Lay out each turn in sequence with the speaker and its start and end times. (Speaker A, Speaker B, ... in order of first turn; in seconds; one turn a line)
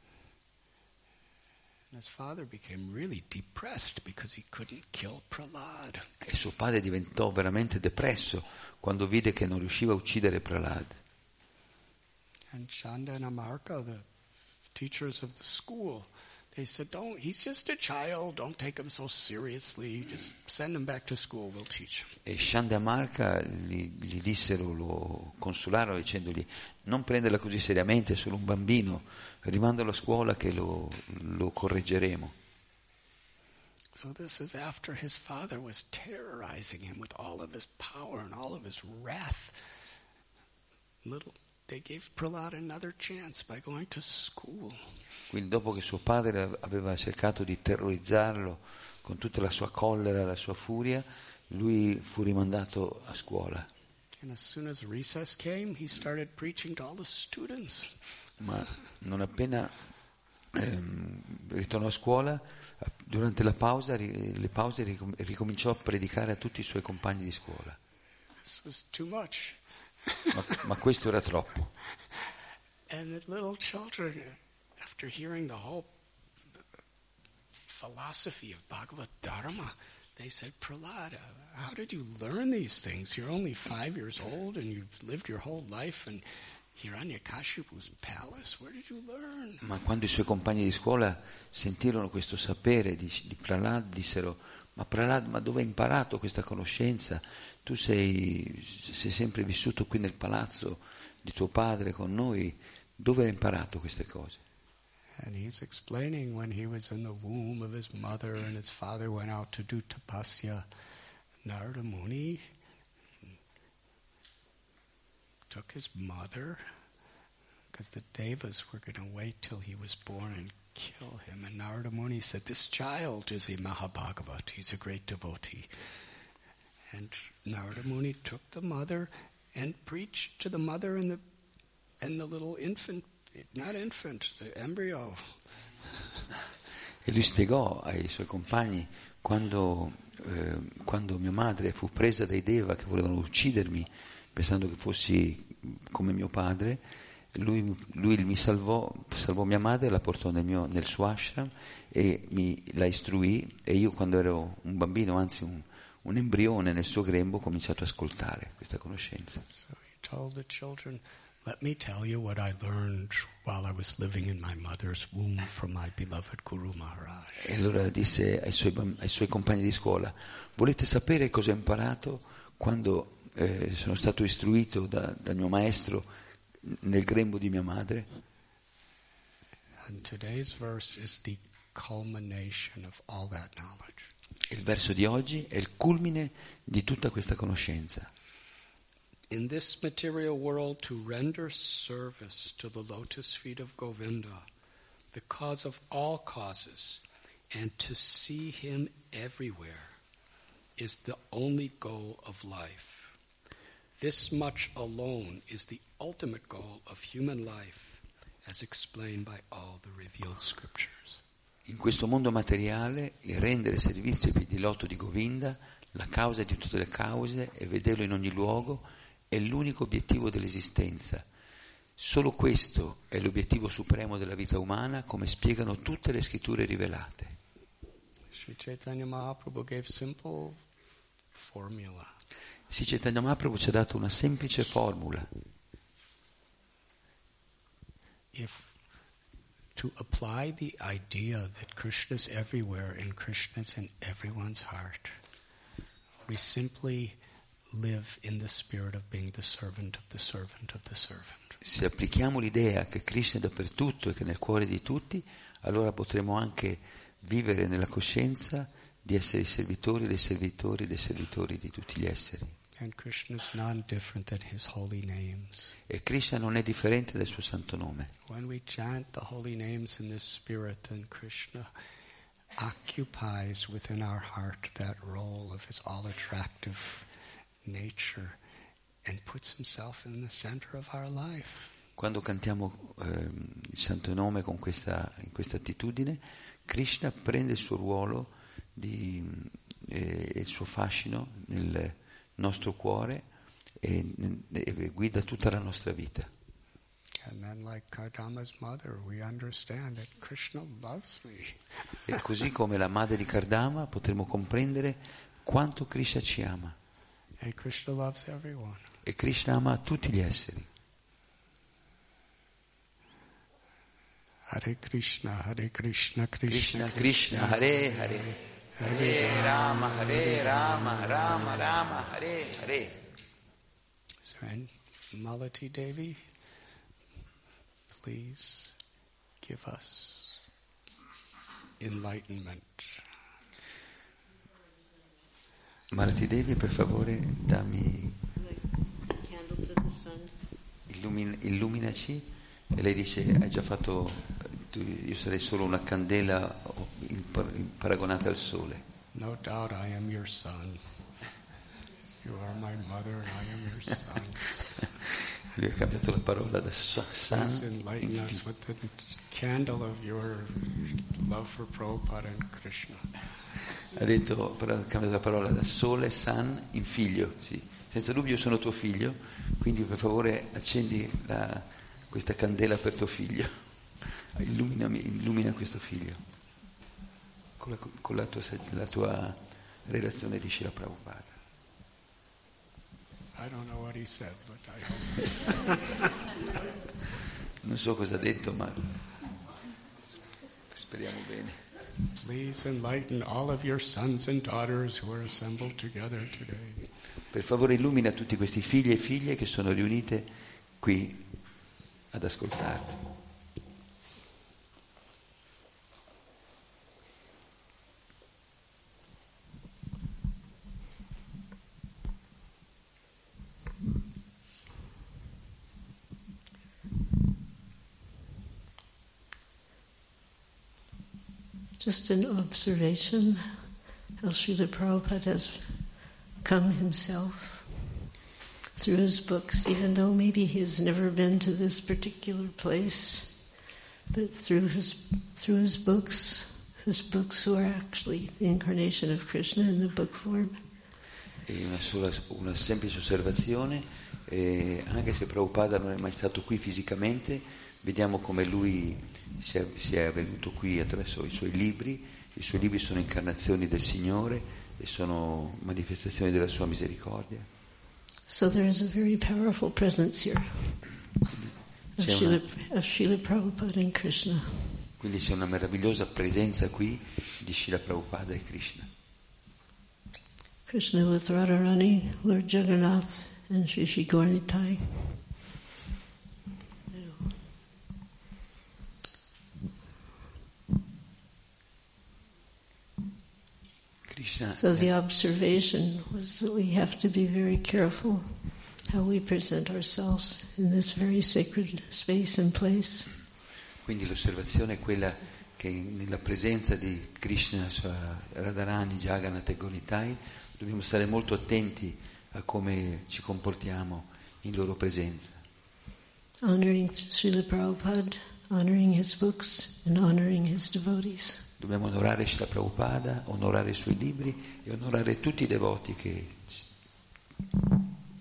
Speaker A: 1.9-6.1
Speaker B: 6.2-11.0
Speaker A: 12.5-14.1
Speaker A: 14.8-22.2
Speaker B: 22.2-32.4
Speaker A: 34.0-39.8
Speaker A: 41.0-44.9
Speaker B: 45.3-53.7
Speaker A: 54.2-58.0
Speaker B: 58.4-59.8
Speaker B: 60.5-67.8
Speaker A: 68.4-70.3
Speaker B: 70.3-71.7
Speaker A: 72.9-75.9
Speaker A: 77.7-89.6
Speaker B: 89.6-104.4
Speaker A: 105.2-110.7
Speaker A: 111.4-112.5
Speaker A: 115.5-116.7
Speaker A: 117.7-125.9
Speaker A: 126.9-131.2
Speaker A: 132.0-135.4
Speaker B: 137.0-146.8
Speaker B: 147.3-159.4
Speaker A: 159.5-167.4
Speaker B: 167.4-176.1
Speaker B: 176.6-178.1
Speaker A: 179.8-184.1
Speaker B: 184.5-188.1
Speaker A: 189.3-194.5
Speaker A: 195.1-200.0
Speaker A: 200.8-203.2
Speaker A: 204.0-211.2
Speaker B: 211.7-221.2
Speaker B: 222.0-227.4
Speaker A: 228.3-230.6
Speaker A: 231.3-232.2
Speaker B: 232.7-235.3
Speaker A: 238.3-238.8
Speaker A: 239.8-245.2
Speaker A: 246.3-247.2
Speaker A: 247.7-251.6
Speaker B: 251.6-262.6
Speaker A: 262.8-265.7
Speaker B: 265.9-268.1
Speaker A: 268.3-271.7
Speaker A: 272.6-277.1
Speaker A: 277.6-278.4
Speaker A: 279.0-281.7
Speaker B: 282.0-293.2
Speaker B: 293.8-296.3
Speaker A: 297.2-302.0
Speaker B: 302.1-306.8
Speaker A: 307.4-308.9
Speaker B: 309.1-310.7
Speaker A: 314.5-319.5
Speaker B: 316.5-323.0
Speaker A: 324.2-326.3
Speaker A: 327.9-328.8
Speaker A: 329.4-330.5
Speaker A: 331.8-333.1
Speaker B: 335.9-338.2
Speaker C: 338.4-340.3
Speaker B: 340.9-348.9
Speaker A: 349.1-350.9
Speaker A: 352.2-354.5
Speaker B: 355.5-358.3
Speaker A: 357.3-363.2
Speaker B: 363.9-376.2
Speaker B: 377.6-381.4
Speaker A: 383.4-386.0
Speaker B: 387.6-389.1
Speaker B: 390.7-391.7
Speaker A: 392.1-396.9
Speaker B: 397.3-401.3
Speaker B: 402.1-403.0
Speaker C: 421.8-428.0
Speaker C: 428.8-440.9
Speaker B: 441.5-457.5
Speaker C: 458.3-461.0
Speaker C: 462.0-464.9
Speaker B: 462.0-462.4
Speaker B: 465.0-468.9
Speaker C: 470.7-475.3
Speaker C: 476.9-477.4
Speaker B: 484.1-484.9
Speaker C: 484.6-493.2
Speaker B: 493.8-505.4
Speaker C: 506.4-511.5
Speaker B: 511.6-516.7